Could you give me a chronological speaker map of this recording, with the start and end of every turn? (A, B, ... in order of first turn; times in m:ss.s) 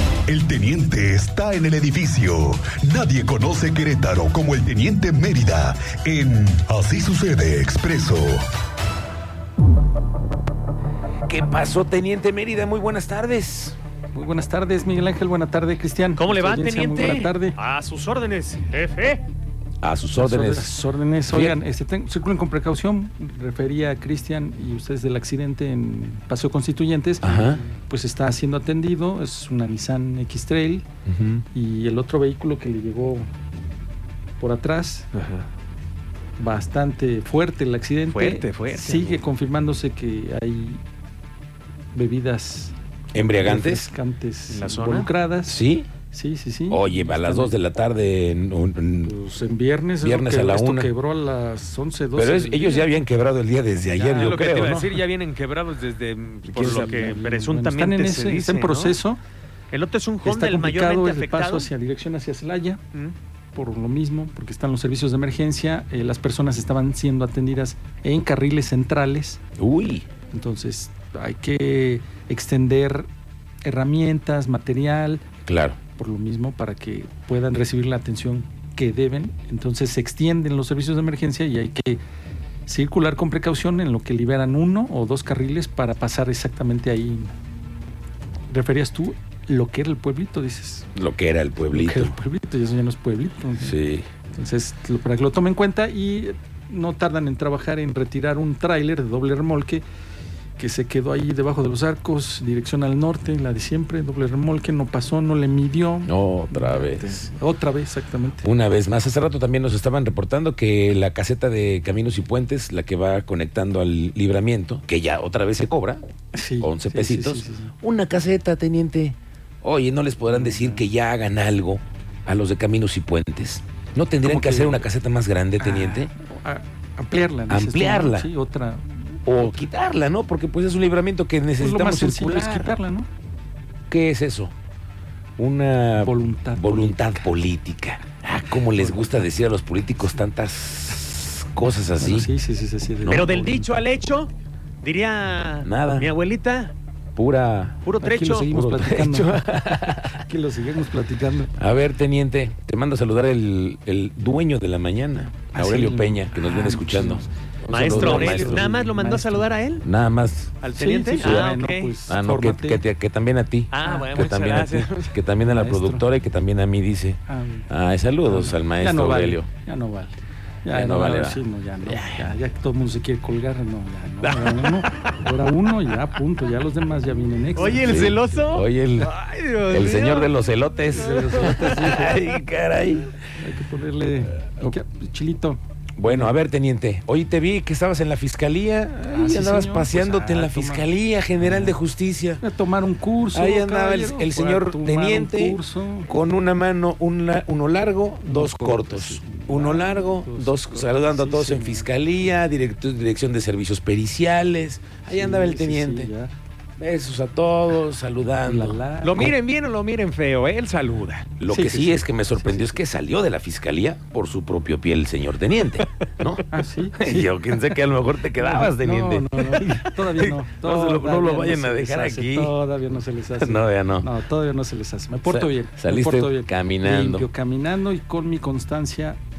0:00.3-0:08.4 A
0:11.3-0:13.8 B
0:14.1-0:17.6 C
0:16.2-0:19.2 D
0:19.8-0:20.7 B
0:20.2-0:30.8 C
0:21.3-0:21.6 B
0:27.2-0:27.6 B
0:31.1-0:31.4 B
0:31.5-0:33.3 C
0:34.4-0:35.1 C
0:35.1-0:35.4 D
0:36.4-0:40.8 C
0:38.1-0:39.2 D
0:41.9-0:42.7 C
0:43.1-0:43.9 B
0:43.3-0:47.5 C
0:44.5-0:45.1 D
0:45.4-0:45.9 B
0:46.7-0:49.2 B
0:49.0-0:53.0 C
0:50.0-0:50.9 B
0:52.2-0:55.0 B
0:54.0-0:59.0 D
0:56.5-0:57.0 B
0:56.6-0:59.2 C
0:59.7-1:01.7 D
1:00.2-1:02.8 C
1:03.5-1:09.4 C
1:09.6-1:10.1 B
1:10.3-1:13.1 C
1:13.6-1:15.2 C
1:15.5-1:15.8 B
1:16.0-1:22.0 C
1:22.7-1:27.3 C
1:28.5-1:30.9 C
1:31.0-1:32.2 B
1:31.7-1:33.8 C
1:33.6-1:34.0 B
1:34.3-1:39.8 C
1:40.6-1:48.5 C
1:46.0-1:47.1 B
1:48.4-1:56.0 B
1:56.3-1:57.7 C
1:56.6-2:06.1 B
2:00.3-2:00.8 C
2:04.2-2:04.8 C
2:05.6-2:09.7 C
2:07.5-2:08.3 B
2:09.3-2:12.8 B
2:11.6-2:13.1 C
2:13.9-2:14.5 B
2:15.4-2:22.3 B
2:16.0-2:17.4 C
2:18.5-2:19.2 C
2:22.0-2:23.6 C
2:23.0-2:23.6 B
2:23.1-2:24.3 D
2:24.8-2:26.7 D
2:25.6-2:26.1 B
2:27.2-2:30.2 B
2:27.8-2:28.5 D
2:28.0-2:31.5 C
2:31.6-2:38.7 B
2:35.5-2:39.5 C
2:37.7-2:39.9 D
2:39.8-2:40.6 B
2:40.6-2:42.0 D
2:40.8-2:42.8 C
2:41.2-2:49.5 B
2:43.7-2:45.1 D
2:43.8-2:44.3 C
2:45.4-2:46.0 C
2:47.3-2:47.7 C
2:48.2-2:58.0 C
2:50.7-2:52.3 B
2:54.2-2:54.9 B
2:57.6-3:00.4 D
2:57.8-2:59.2 B
2:59.7-3:03.2 B
3:00.9-3:02.2 C
3:03.3-3:06.4 C
3:06.0-3:12.4 B
3:09.1-3:11.8 C
3:12.4-3:16.1 C
3:13.3-3:26.1 B
3:18.2-3:21.9 C
3:25.1-3:26.3 C
3:26.8-3:29.3 B
3:28.4-3:29.3 C
3:29.0-3:31.3 D
3:31.4-3:42.5 B
3:31.5-3:32.8 C
3:36.5-3:37.6 C
3:38.4-3:49.2 C
3:43.4-3:44.1 B
3:45.2-3:47.3 B